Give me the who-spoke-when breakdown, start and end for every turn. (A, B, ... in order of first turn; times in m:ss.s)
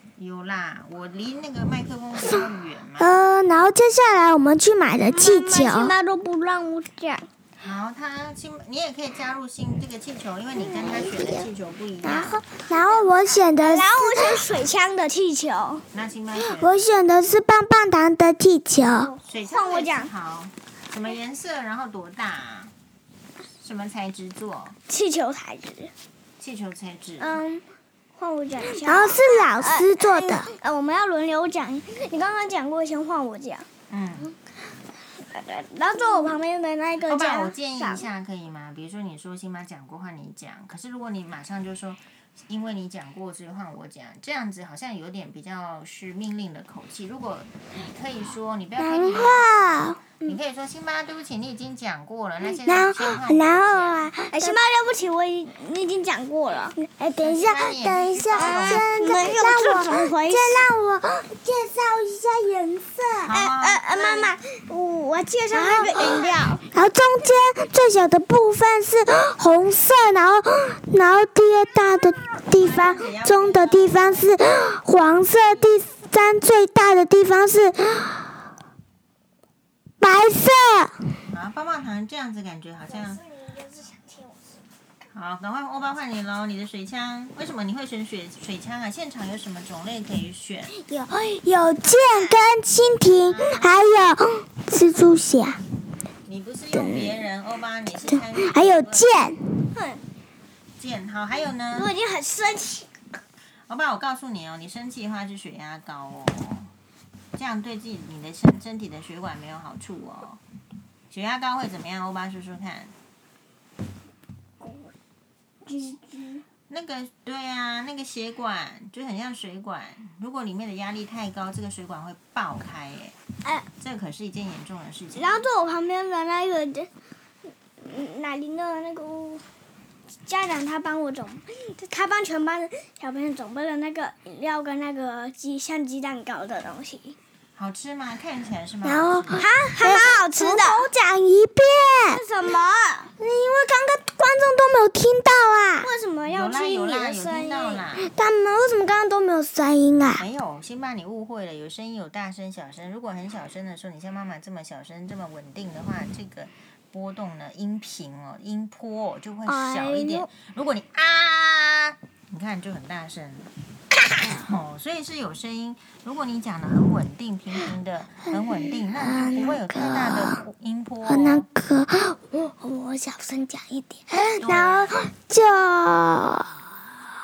0:00.2-0:03.2 A
0:03.0-0:05.9 B
0:05.1-0:07.3 C
0:07.6-0:12.4 A
0:10.6-0:11.5 B
0:12.0-0:14.4 B
0:12.8-0:15.8 C
0:15.9-0:16.8 A
0:16.4-0:19.1 B
0:18.9-0:20.1 C
0:19.2-0:22.7 A
0:23.6-0:24.8 A
0:24.9-0:25.9 C
0:26.4-0:27.4 A
0:27.2-0:27.6 C
0:28.1-0:33.7 C
0:28.6-0:30.5 B
0:33.9-0:34.3 A
0:35.3-0:38.0 C
0:37.0-0:54.1 A
0:48.8-0:50.3 B
0:52.5-0:54.6 B
0:54.3-0:56.8 C
0:56.8-1:03.3 B
0:57.2-0:58.9 A
0:58.4-1:00.6 C
1:03.2-1:04.3 A
1:03.3-1:06.6 C
1:05.5-1:06.6 A
1:05.8-1:06.1 B
1:06.6-1:18.4 B
1:12.4-1:14.3 A
1:20.0-1:21.1 B
1:21.3-1:23.2 A
1:25.1-1:30.8 A
1:30.8-1:35.6 B
1:31.9-1:32.2 C
1:33.0-1:33.8 A
1:36.2-1:39.1 A
1:36.7-1:37.2 B
1:38.1-1:39.6 B
1:39.7-1:40.0 C
1:40.8-1:41.9 A
1:41.7-1:42.9 C
1:43.7-1:46.7 A
1:47.3-1:50.4 A
1:51.1-1:52.9 A
1:54.6-1:54.9 C
1:55.6-1:56.4 C
1:56.7-2:03.1 A
2:03.8-2:05.5 A
2:05.1-2:06.9 C
2:07.8-2:09.4 C
2:10.2-2:17.2 C
2:17.6-2:19.4 A
2:18.8-2:22.2 B
2:19.3-2:20.8 C
2:22.1-2:23.1 C
2:23.2-2:25.9 B
2:25.8-2:27.9 C
2:26.3-2:28.1 A
2:28.0-2:30.2 B
2:30.2-2:43.5 A
2:39.8-2:40.2 C
2:44.2-2:51.5 A
2:48.3-2:50.4 B
2:51.0-2:56.6 B
2:54.4-2:55.0 A